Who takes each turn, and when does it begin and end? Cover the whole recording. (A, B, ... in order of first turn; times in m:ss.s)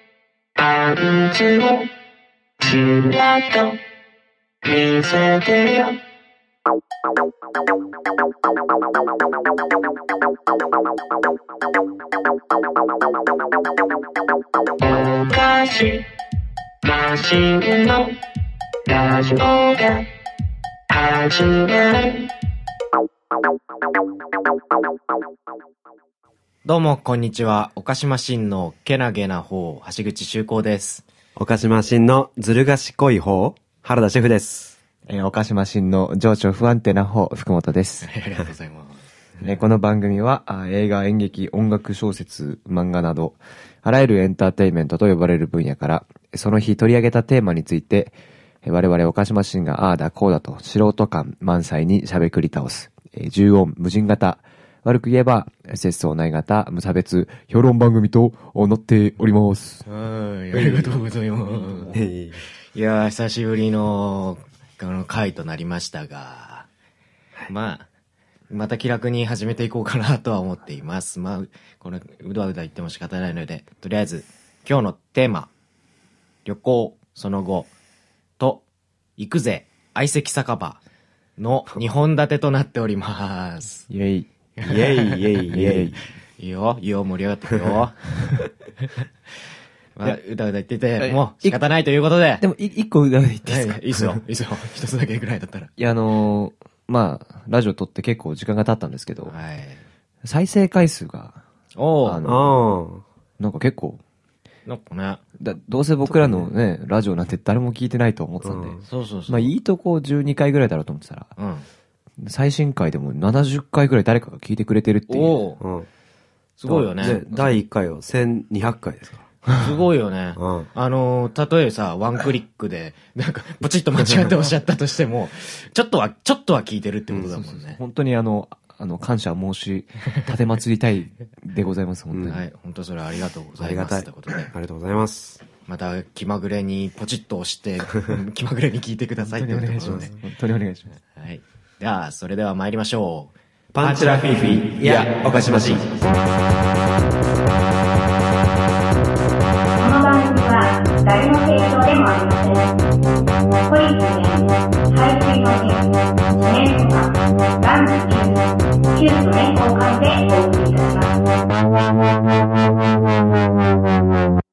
0:00.9-0:01.9 A
0:02.7-0:03.8 A
0:04.6-0:06.0 A
0:14.9-0:16.0 A
0:17.0-0:18.2 A
0:18.9-0:20.0 A
0:21.0-0:22.2 A
0:26.6-0:31.0 B
0:31.4-0:34.8 C
0:35.1-0:38.1 D
0:38.0-0:39.0 B
0:39.4-0:59.9 D
0:59.9-1:02.0 B
1:00.5-1:01.0 C
1:01.4-1:02.0 D
1:01.9-1:02.4 C
1:02.7-1:06.7 B
1:07.5-1:07.9 B
1:08.5-1:15.5 B
1:16.5-1:17.7 B
1:18.4-1:18.6 B
1:19.2-1:20.8 B
1:21.4-1:23.9 B
1:23.9-1:24.3 D
1:24.6-1:25.3 B
1:24.6-1:26.0 C
1:25.5-1:26.0 D
1:26.4-1:28.0 B
1:30.0-1:32.4 B
1:31.0-1:31.6 D
1:32.4-1:34.2 D
1:33.5-1:35.7 B
1:35.8-1:39.3 D
1:39.3-1:39.8 B
1:40.2-1:41.4 D
1:41.8-1:42.2 B
1:42.0-1:42.6 D
1:42.2-1:43.0 C
1:43.4-1:44.0 D
1:44.7-1:45.2 B
1:45.4-1:51.4 D
1:46.1-1:46.5 C
1:48.4-1:48.8 C
1:48.9-1:49.5 B
1:51.4-1:51.7 B
1:52.2-1:55.4 D
1:55.1-1:55.6 B
1:55.6-1:55.9 C
1:56.6-1:57.4 B
1:56.7-1:59.3 C
1:59.5-2:07.8 B
2:00.4-2:00.7 C
2:07.2-2:12.4 D
2:12.3-2:14.5 B
2:13.6-2:15.4 C
2:15.6-2:20.2 B
2:19.2-2:21.0 D
2:19.8-2:20.1 C
2:21.1-2:26.0 B
2:23.7-2:25.8 C
2:29.8-2:32.7 E
2:33.7-2:41.2 E